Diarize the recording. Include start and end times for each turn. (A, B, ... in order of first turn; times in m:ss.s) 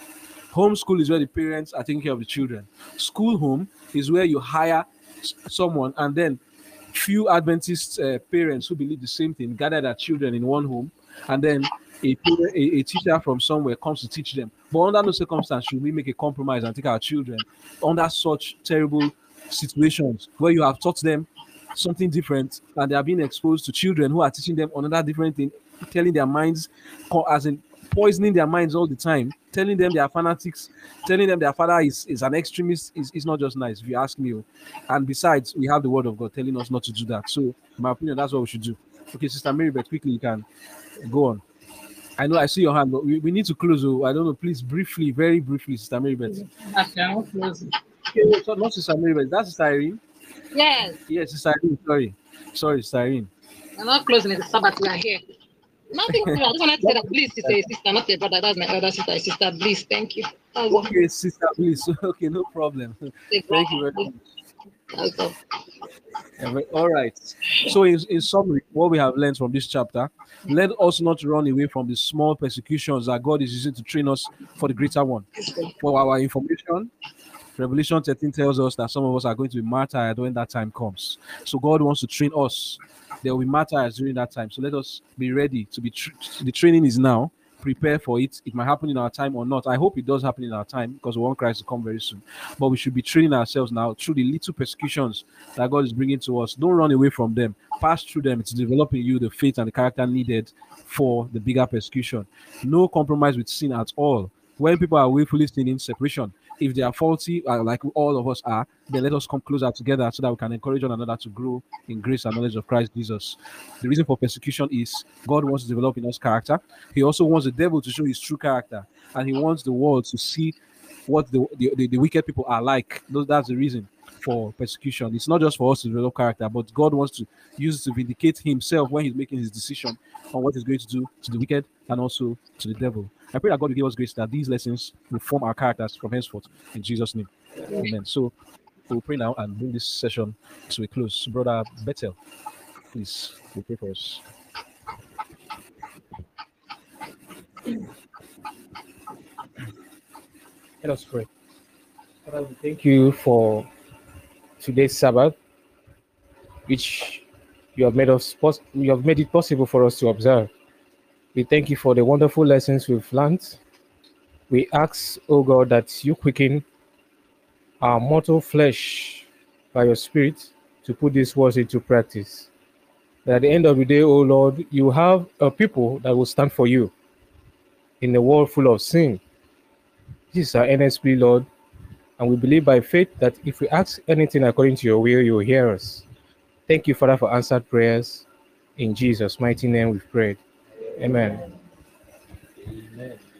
0:00.5-0:06.4 A
0:06.9-0:40.4 A
0:41.0-0:41.4 A
0:42.2-0:46.4 A
0:46.3-0:47.7 B
0:48.2-0:50.0 A
0:50.5-0:51.0 B
0:51.1-0:53.3 A
0:53.8-0:55.2 B
0:55.9-1:01.0 B
1:00.7-1:04.2 A
1:03.3-1:04.1 B
1:04.9-1:05.4 B
1:06.4-1:15.2 A
1:15.4-1:15.7 B
1:15.8-1:16.9 A
1:17.6-2:00.5 A
2:01.1-2:18.3 A
2:18.9-2:22.2 A
2:22.9-2:24.2 A
2:30.8-2:31.3 C
2:32.2-2:33.7 C
2:34.6-2:35.4 C
2:36.7-2:40.5 C
2:41.3-2:43.6 C
2:44.5-2:46.6 C
2:47.8-2:52.5 C
2:53.2-2:56.9 C
2:58.0-2:59.2 C
3:00.3-3:01.5 C
3:02.2-3:06.0 C
3:06.7-3:08.2 C
3:08.8-3:10.4 C
3:11.0-3:11.4 C
3:12.7-3:13.1 A